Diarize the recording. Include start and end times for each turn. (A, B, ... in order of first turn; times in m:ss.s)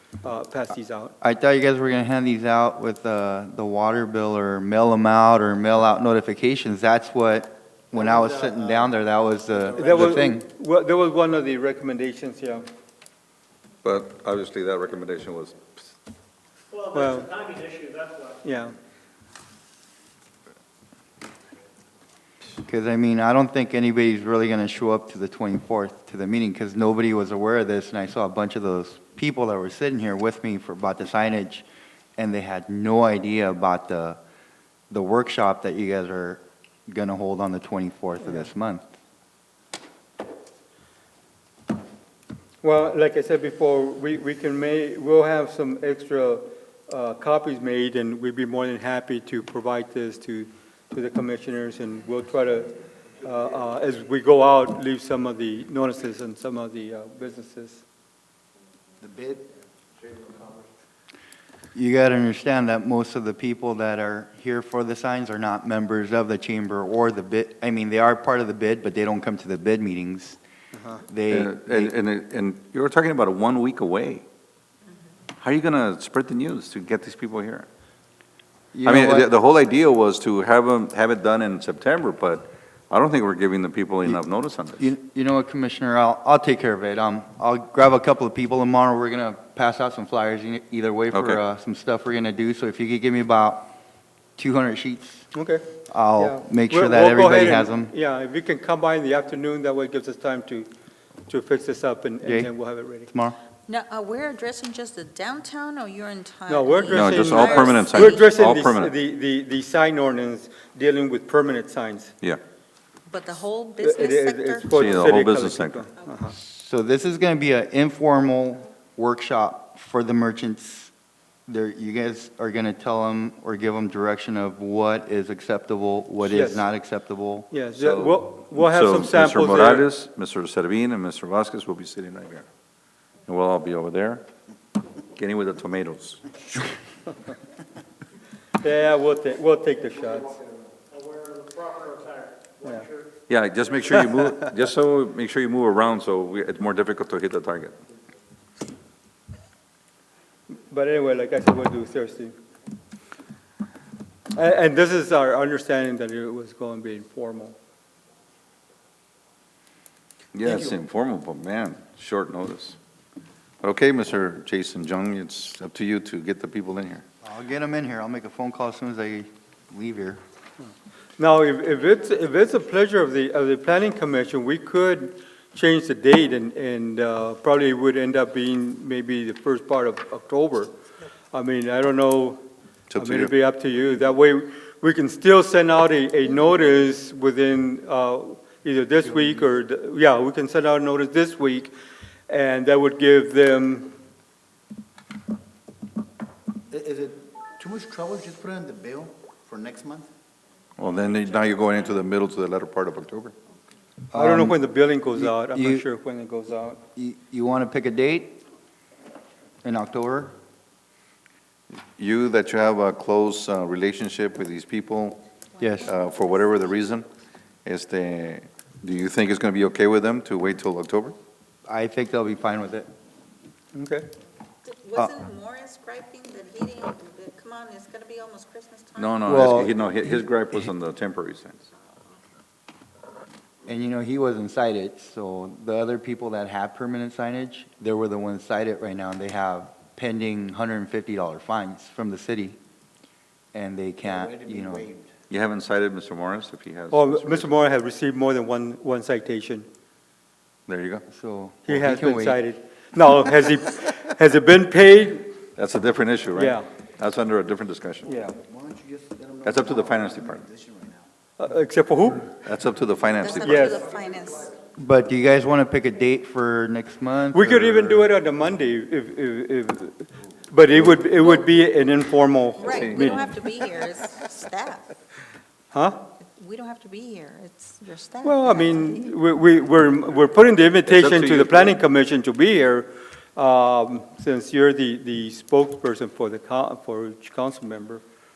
0:00.2-0:01.1 A
0:01.2-0:10.4 B
0:08.0-0:08.4 C
0:09.8-0:12.6 A
0:13.8-0:15.7 D
0:16.7-0:18.4 E
0:16.9-0:17.3 A
0:18.4-0:18.7 A
0:22.6-0:31.6 B
0:32.2-0:34.2 B
0:34.9-0:38.8 B
0:42.6-0:57.8 A
0:59.0-0:59.5 C
1:00.0-1:00.6 C
1:01.7-1:10.4 B
1:10.7-1:11.0 A
1:11.0-1:11.9 B
1:11.3-1:14.2 D
1:15.4-1:17.7 D
1:18.7-1:19.3 B
1:18.8-1:24.9 D
1:24.8-1:33.7 B
1:31.1-1:31.4 D
1:34.4-1:35.3 B
1:35.3-1:35.6 A
1:35.9-1:37.9 B
1:36.2-1:40.7 A
1:41.3-1:43.1 A
1:42.2-1:42.5 B
1:43.1-1:43.4 B
1:43.7-1:48.2 F
1:46.5-1:52.1 A
1:46.9-1:48.9 D
1:53.1-1:55.2 F
1:53.8-1:56.3 A
1:54.7-1:55.9 D
1:56.3-2:00.9 B
2:01.5-2:07.5 B
2:06.2-2:06.6 A
2:07.5-2:09.9 A
2:07.7-2:12.4 D
2:13.2-2:14.3 D
2:15.1-2:16.4 D
2:18.6-2:20.4 A
2:20.9-2:23.1 E
2:23.3-2:27.8 D
2:30.7-2:32.3 A
2:34.3-2:37.6 A
2:40.3-2:42.8 D
2:43.6-2:47.0 D
2:47.2-2:50.2 B
2:51.2-3:00.7 A
3:01.3-3:02.4 A
3:02.9-3:03.3 D
3:02.9-3:11.7 A
3:12.3-3:13.9 A
3:16.7-3:20.1 C
3:20.8-3:23.3 D
3:24.1-3:25.9 B
3:24.1-3:26.8 A
3:27.0-3:28.4 B
3:29.6-3:30.3 B
3:31.7-3:35.2 D
3:35.5-3:37.0 F
3:35.6-3:35.9 B
3:35.8-3:37.1 D
3:37.6-3:41.2 D
3:41.7-3:42.9 B
3:43.7-3:44.0 A
3:44.6-3:49.7 F
3:49.0-3:51.7 D
3:49.3-3:49.7 B
3:53.6-4:02.6 B
4:03.5-4:04.9 B
4:04.0-4:05.1 C
4:05.3-4:07.5 D
4:06.9-4:09.6 A
4:10.7-4:11.0 D
4:11.1-4:12.4 B
4:11.7-4:15.3 A
4:15.6-4:18.1 D
4:16.4-4:16.7 A
4:18.1-4:18.3 A
4:18.3-4:21.0 C
4:19.4-4:20.5 D
4:21.4-4:22.3 A
4:22.4-4:23.7 D
4:23.2-4:24.5 F
4:23.4-4:23.8 A
4:24.8-4:28.1 B
4:27.3-4:33.2 A
4:31.2-4:31.4 F
4:32.6-4:34.9 F
4:32.7-4:33.3 D
4:35.7-4:36.0 A
4:36.2-4:39.1 F
4:38.2-4:48.0 A
4:40.8-4:41.7 D